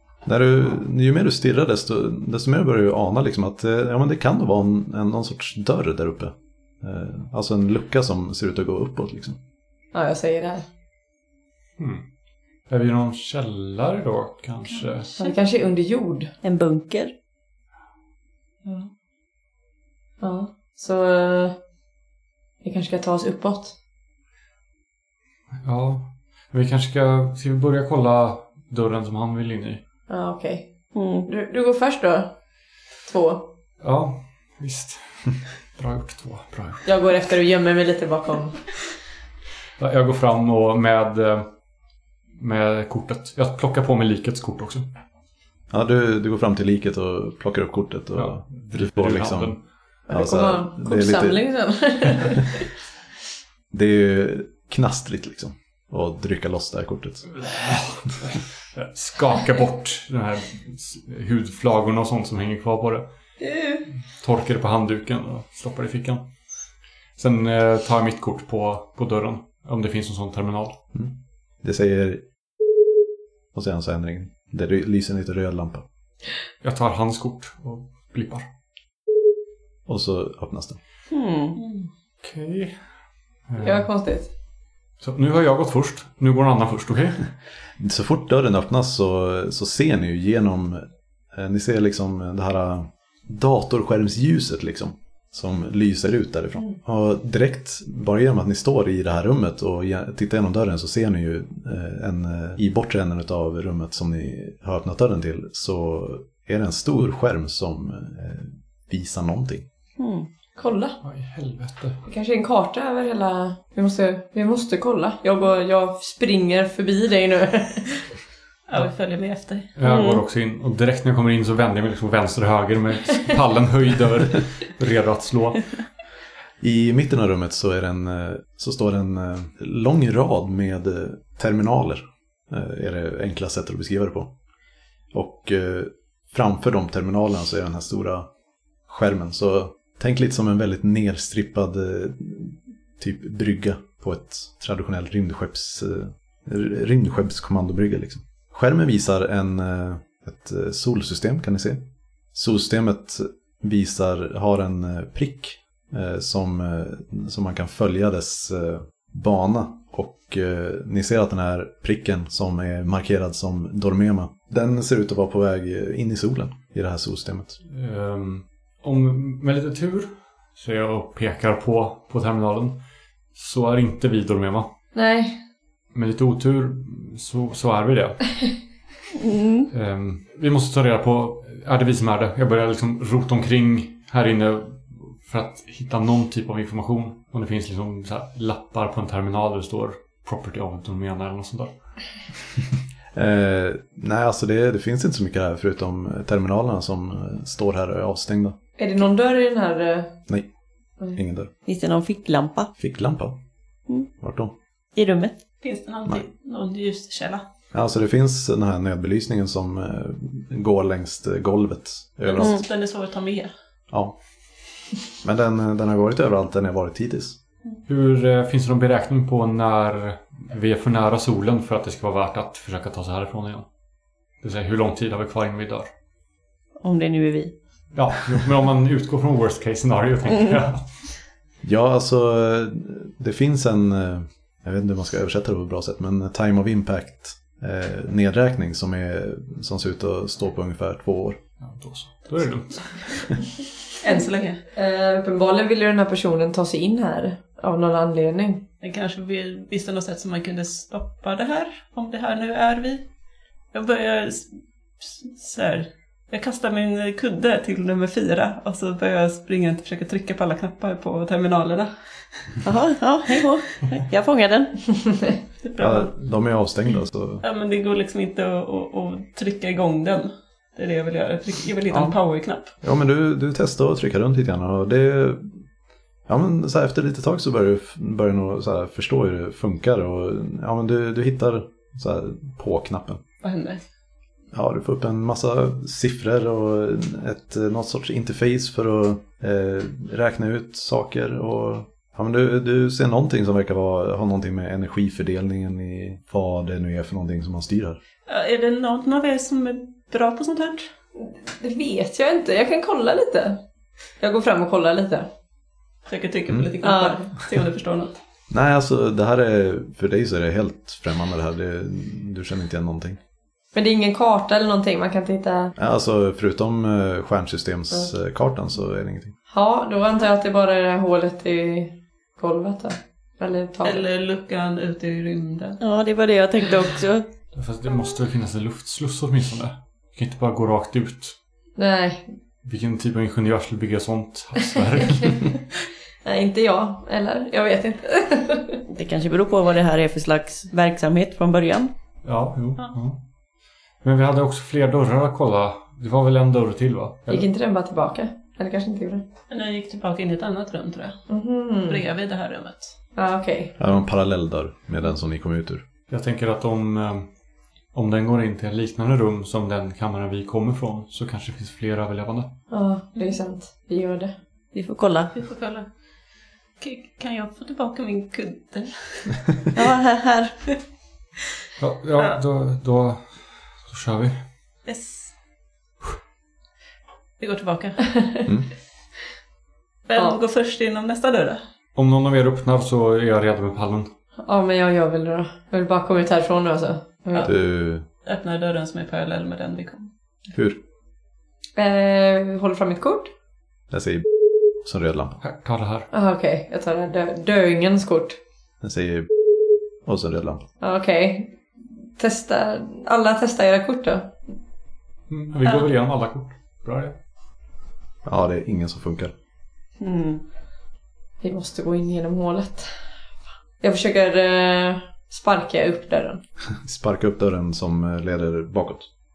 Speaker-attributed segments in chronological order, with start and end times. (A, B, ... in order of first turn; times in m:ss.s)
0:00.2-0:09.4 A
0:09.9-0:10.6 B
0:11.8-0:12.0 C
0:12.7-0:15.1 C
0:15.2-0:16.3 B
0:16.4-0:17.1 D
0:20.2-0:21.6 B
0:22.6-0:23.8 B
0:25.6-0:29.8 C
0:30.1-0:30.7 B
0:30.9-0:31.3 D
0:31.2-0:32.4 B
0:33.0-0:33.5 B
0:33.8-0:36.9 C
0:36.8-0:38.6 B
0:39.8-0:41.5 C
0:42.4-0:44.9 C
0:45.7-0:49.6 A
0:48.1-0:49.6 C
0:50.1-0:51.4 A
0:50.1-0:52.6 B
0:53.7-0:57.3 A
0:57.4-1:03.1 C
1:03.5-1:03.8 B
1:04.2-1:06.3 C
1:07.2-1:10.8 C
1:10.9-1:12.2 A
1:13.5-1:15.8 A
1:16.6-1:18.4 C
1:19.9-1:20.8 A
1:21.1-1:21.6 D
1:21.6-1:21.9 E
1:22.2-1:22.8 C
1:23.5-1:23.9 C
1:23.6-1:24.3 B
1:25.0-1:27.3 C
1:27.8-1:49.6 A
1:50.0-1:50.3 D
1:50.6-1:51.0 B
1:51.0-1:52.0 C
1:52.0-1:58.1 B
1:58.7-1:59.7 E
1:59.8-2:05.7 C
1:59.8-2:00.2 D
2:06.6-2:14.3 A
2:15.1-2:18.3 A
2:18.9-2:47.6 A
2:47.7-2:52.8 C
2:53.3-2:54.7 C
2:54.9-2:55.4 B
2:55.9-2:58.5 C
2:59.2-2:59.7 D
2:59.7-3:11.7 C
3:13.1-3:18.6 A
3:18.8-3:20.2 B
3:21.1-3:21.5 A
3:21.6-3:22.7 D
3:22.8-3:23.4 A
3:24.2-3:24.5 A
3:24.9-3:25.4 D
3:25.6-3:27.4 E
3:27.7-3:32.6 A
3:32.2-3:33.5 E
3:32.4-3:32.6 D
3:35.2-3:37.4 A
3:37.9-3:43.7 C
3:44.4-3:45.9 C
3:46.8-3:47.5 D
3:47.9-3:51.2 C
3:51.6-4:01.4 A
4:01.6-4:03.4 C
4:04.0-4:04.6 E
4:04.0-4:08.6 B
4:08.8-4:13.0 E
4:13.7-4:22.6 E
4:22.6-4:25.0 D
4:25.6-4:26.1 E
4:25.8-4:27.4 A
4:27.4-4:32.7 E
4:32.8-4:35.5 A
4:36.3-4:43.2 A
4:43.4-4:43.8 E
4:44.5-4:58.0 A
4:58.3-5:00.9 E
5:01.2-5:03.6 B
5:04.2-5:05.3 B
5:06.0-5:08.2 E
5:06.8-5:07.2 B
5:08.5-5:13.2 A
5:13.7-5:15.7 B
5:15.8-5:19.3 A
5:19.5-5:24.0 B
5:23.8-5:25.8 E
5:25.8-5:27.3 D
5:27.5-5:31.3 C
5:31.8-5:32.3 B
5:32.6-5:35.5 C
5:35.2-5:35.5 B
5:36.2-5:38.8 B
5:38.9-5:41.9 D
5:42.2-5:43.2 C
5:44.0-5:47.4 C
5:47.3-5:49.2 B
5:49.5-5:51.2 E
5:51.3-5:52.0 B
5:51.9-5:52.9 E
5:53.2-5:53.8 B
5:53.8-5:55.8 A
5:56.1-5:57.3 C
5:57.9-6:02.5 C
6:02.7-6:04.3 B
6:04.7-6:05.3 D
6:05.3-6:05.9 E
6:06.8-6:09.5 E
6:09.7-6:10.6 D
6:11.8-6:14.4 C
6:14.8-6:15.3 E
6:17.4-6:18.1 E
6:18.1-6:18.4 B
6:20.0-6:21.6 E
6:22.0-6:24.1 C
6:24.4-6:27.5 B
6:27.4-6:28.0 A
6:28.2-6:30.1 E
6:30.5-6:30.8 A
6:31.8-6:33.3 B
6:33.9-6:34.3 A
6:34.8-6:35.4 A
6:35.4-6:36.1 C
6:36.1-6:38.4 B
6:38.8-6:39.3 A
6:40.0-6:40.6 A
6:40.8-6:41.6 B
6:42.2-6:44.4 B
6:45.3-6:47.2 C
6:48.2-6:49.3 A
6:50.0-6:50.4 D
6:51.4-6:52.9 B
6:53.8-6:56.4 B
6:56.8-6:59.1 A